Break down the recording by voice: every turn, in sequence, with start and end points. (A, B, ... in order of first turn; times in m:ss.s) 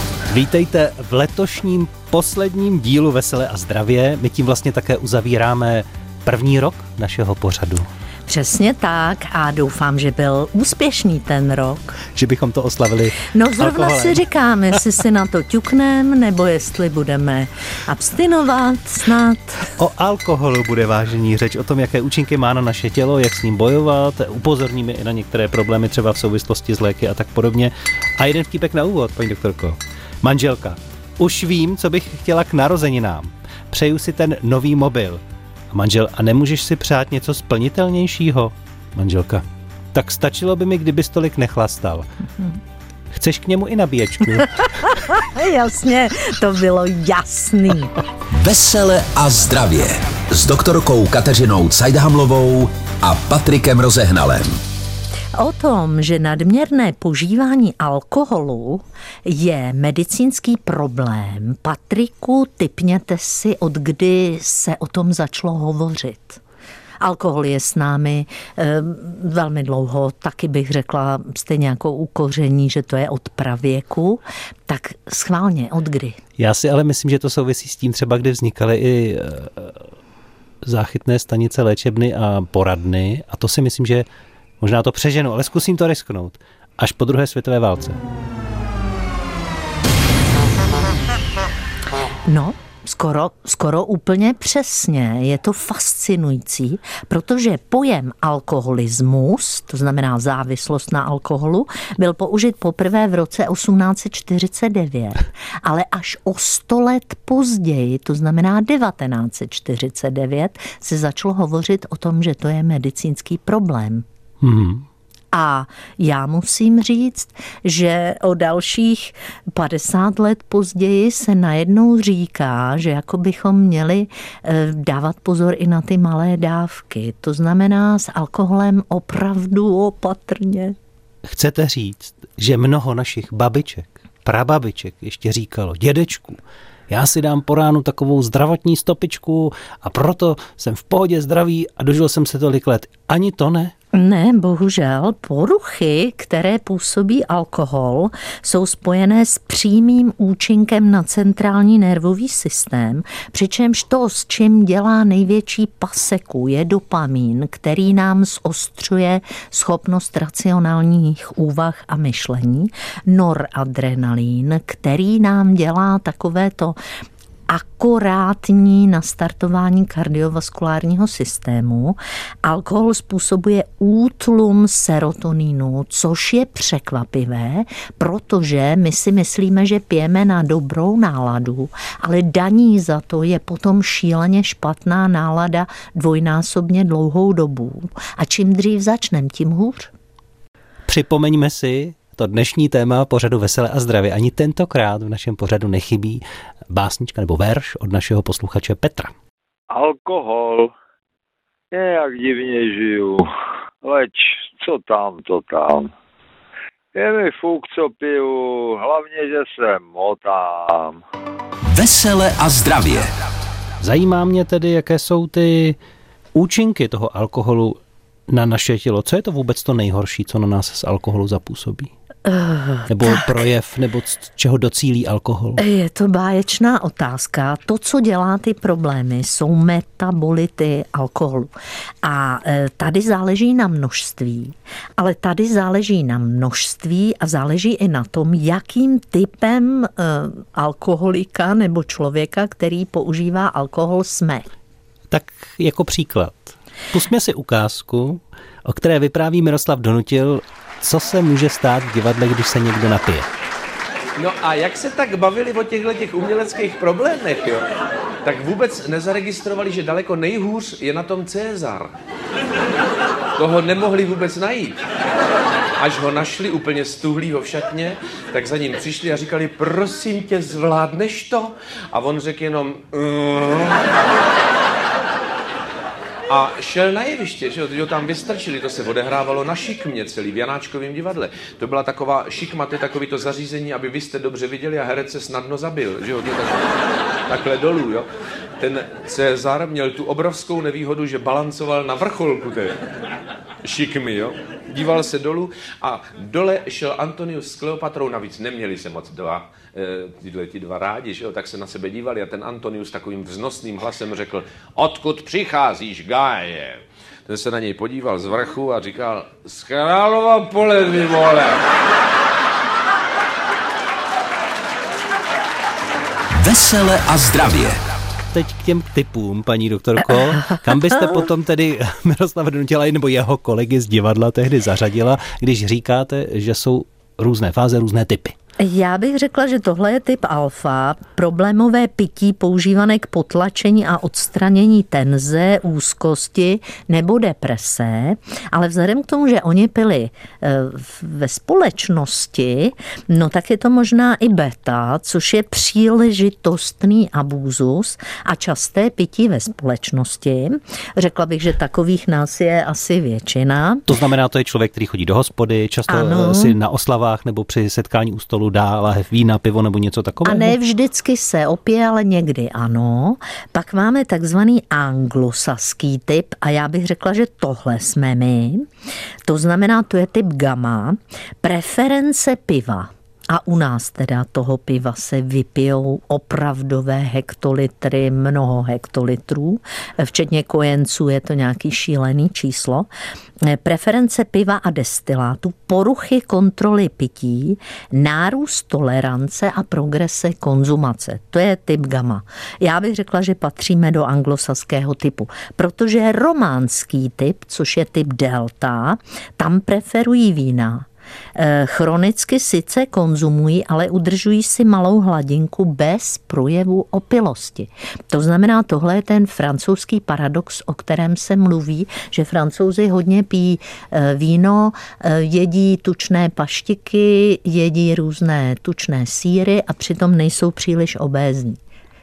0:00.3-0:07.9 A
0:08.3-0:12.0 B
0:12.1-0:14.2 A
0:13.2-0:19.7 B
0:19.8-0:42.1 A
0:43.1-0:44.9 A
0:44.9-0:47.9 B
0:48.3-0:54.6 C
0:55.4-1:06.4 B
1:07.0-1:16.2 B
1:16.4-1:19.8 A
1:20.6-1:24.1 A
1:24.6-1:28.0 A
1:32.3-1:54.1 B
1:54.4-1:54.8 A
1:55.3-2:10.8 B
2:11.3-2:23.7 A
2:23.9-2:46.8 B
2:47.5-3:09.9 B
3:10.9-3:19.1 A
3:19.7-3:20.7 D
3:21.7-3:23.3 D
3:23.8-3:25.9 D
3:27.0-3:31.0 D
3:31.7-3:33.1 C
3:33.8-3:35.8 A
3:36.4-3:41.9 A
3:42.3-3:43.4 B
3:42.9-3:45.6 A
3:45.6-3:51.5 B
3:52.0-4:04.5 B
4:05.1-4:13.3 A
4:14.2-4:17.6 E
4:18.2-4:21.9 E
4:23.4-4:24.8 E
4:25.8-4:33.8 E
4:36.3-4:46.7 E
4:47.3-4:48.1 E
4:48.6-4:52.8 E
4:53.6-5:11.6 E
5:16.4-5:17.8 C
5:18.3-5:28.4 A
5:28.6-5:53.9 B
5:53.9-6:00.6 A
5:55.9-5:56.6 B
6:00.2-6:08.7 B
6:09.3-6:22.9 B
6:23.4-7:01.6 B